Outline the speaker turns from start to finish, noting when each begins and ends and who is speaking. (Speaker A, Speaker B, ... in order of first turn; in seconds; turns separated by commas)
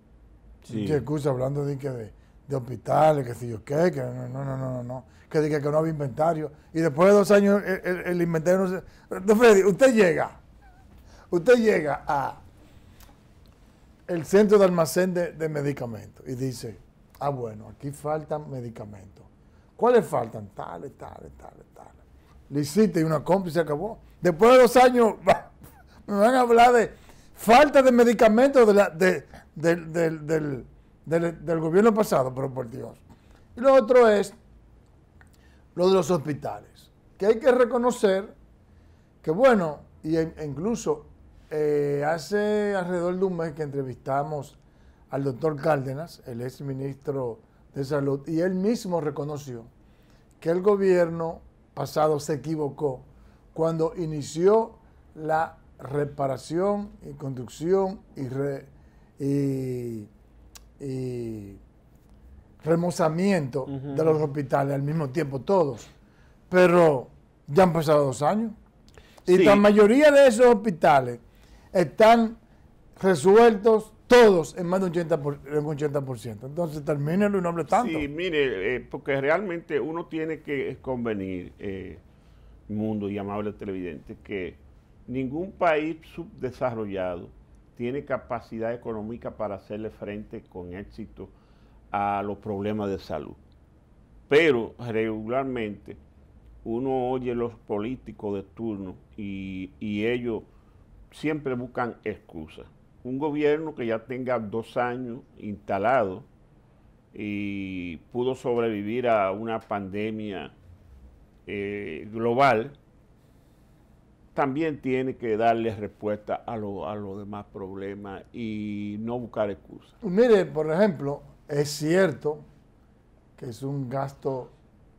Speaker A: 0.6-1.1, Speaker B: 0.7-10.4, Speaker B: 11.3-12.4, Speaker B: 14.1-25.6, Speaker B: 26.1-33.0, Speaker B: 33.5-34.4, Speaker B: 35.8-38.3, Speaker B: 39.2-44.6, Speaker B: 45.1-49.7, Speaker B: 50.4-60.1, Speaker B: 60.8-61.6, Speaker B: 62.6-65.9, Speaker A: 63.7-64.2, Speaker B: 66.5-68.6, Speaker B: 69.2-71.2, Speaker A: 69.3-69.7, Speaker B: 71.7-72.4, Speaker B: 73.0-78.1, Speaker A: 77.7-82.0, Speaker A: 82.7-91.3, Speaker A: 91.9-93.4, Speaker A: 94.3-96.0, Speaker A: 96.6-100.5, Speaker A: 101.1-106.3, Speaker A: 107.1-110.5, Speaker A: 111.5-112.8, Speaker A: 114.3-120.0, Speaker B: 120.0-122.5, Speaker B: 123.4-124.5